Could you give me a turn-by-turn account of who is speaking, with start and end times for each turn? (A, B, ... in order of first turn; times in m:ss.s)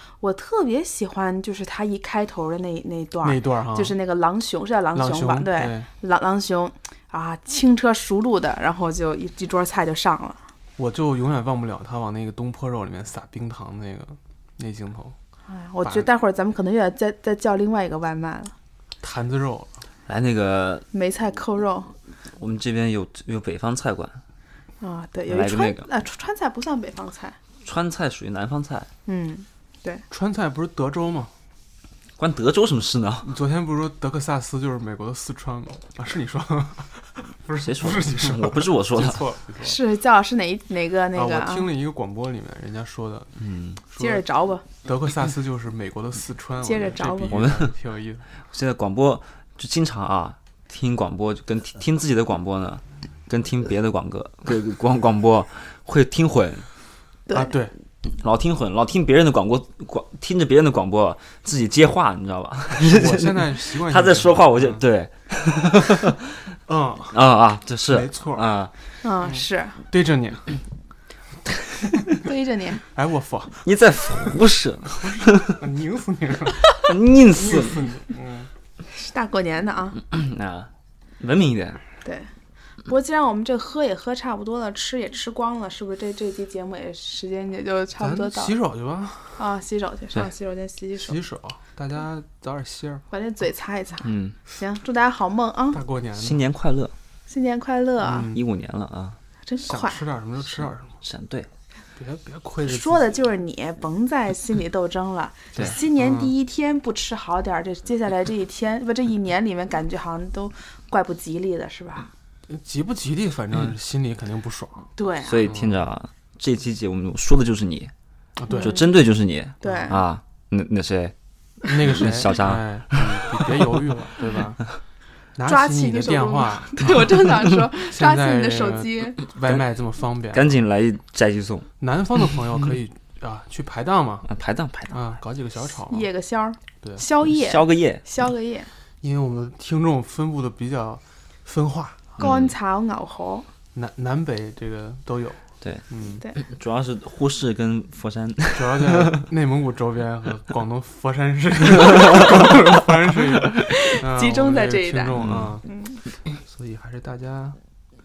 0:00.2-0:10.5 A
0:03.2-0:04.0 B
0:04.9-0:05.9 B
0:10.8-0:15.2 B
0:15.4-0:18.5 A
0:15.8-0:16.1 B
0:19.0-0:19.7 B
0:20.0-0:20.8 C
0:20.9-0:21.9 A
0:22.3-0:24.2 C
0:24.8-0:27.4 A
0:25.3-0:25.9 C
0:27.6-0:28.9 C
0:29.0-0:30.0 A
0:30.1-0:31.3 B
0:32.2-0:33.3 C
0:33.2-0:39.8 B
0:37.5-0:39.2 C
0:39.6-0:41.7 A
0:41.1-0:43.3 B
0:43.4-0:43.8 C
0:43.9-0:44.2 B
0:43.9-0:44.6 A
0:44.8-0:48.3 B
0:46.6-0:47.4 A
0:47.3-0:47.7 C
0:48.5-0:56.7 C
0:57.3-0:57.6 A
0:57.3-0:57.8 B
0:58.0-1:06.6 C
1:02.7-1:04.8 B
1:06.7-1:07.2 B
1:07.1-1:08.7 C
1:07.9-1:08.5 B
1:09.0-1:09.8 A
1:09.9-1:10.6 B
1:12.2-1:12.8 A
1:12.9-1:13.6 B
1:13.6-1:15.6 C
1:14.8-1:16.7 B
1:16.7-1:17.9 C
1:17.2-1:18.5 B
1:18.8-1:20.0 A
1:20.0-1:21.8 C
1:22.0-1:22.3 A
1:22.8-1:28.6 A
1:28.0-1:29.4 B
1:29.4-1:31.2 A
1:30.9-1:33.0 B
1:33.1-1:35.8 A
1:34.0-1:34.4 C
1:35.7-1:36.4 B
1:36.2-1:36.9 C
1:37.3-1:38.4 A
1:38.0-1:38.4 B
1:38.2-1:39.2 C
1:39.4-1:40.0 A
1:39.6-1:41.0 B
1:40.5-1:41.5 C
1:42.0-1:43.1 B
1:42.6-1:52.1 A
1:45.5-1:46.3 B
1:52.5-1:54.9 B
1:55.0-1:55.5 A
1:55.2-1:57.9 C
1:55.4-1:55.8 B
1:58.4-1:58.8 B
1:58.5-1:58.8 A
1:58.5-2:01.1 C
1:59.6-2:00.0 A
1:59.6-2:00.0 B
2:01.7-2:04.6 B
2:01.7-2:03.0 C
2:05.3-2:10.6 B
2:05.4-2:09.2 A
2:10.3-2:11.7 C
2:11.8-2:14.3 B
2:14.2-2:15.0 C
2:14.9-2:16.1 B
2:15.8-2:18.7 A
2:17.2-2:18.0 C
2:19.0-2:22.2 B
2:22.2-2:23.5 A
2:22.2-2:22.5 C
2:23.7-2:26.2 B
2:26.3-2:29.2 C
2:28.5-2:35.6 B
2:33.6-2:36.0 A
2:35.2-2:35.6 C
2:36.2-2:37.6 B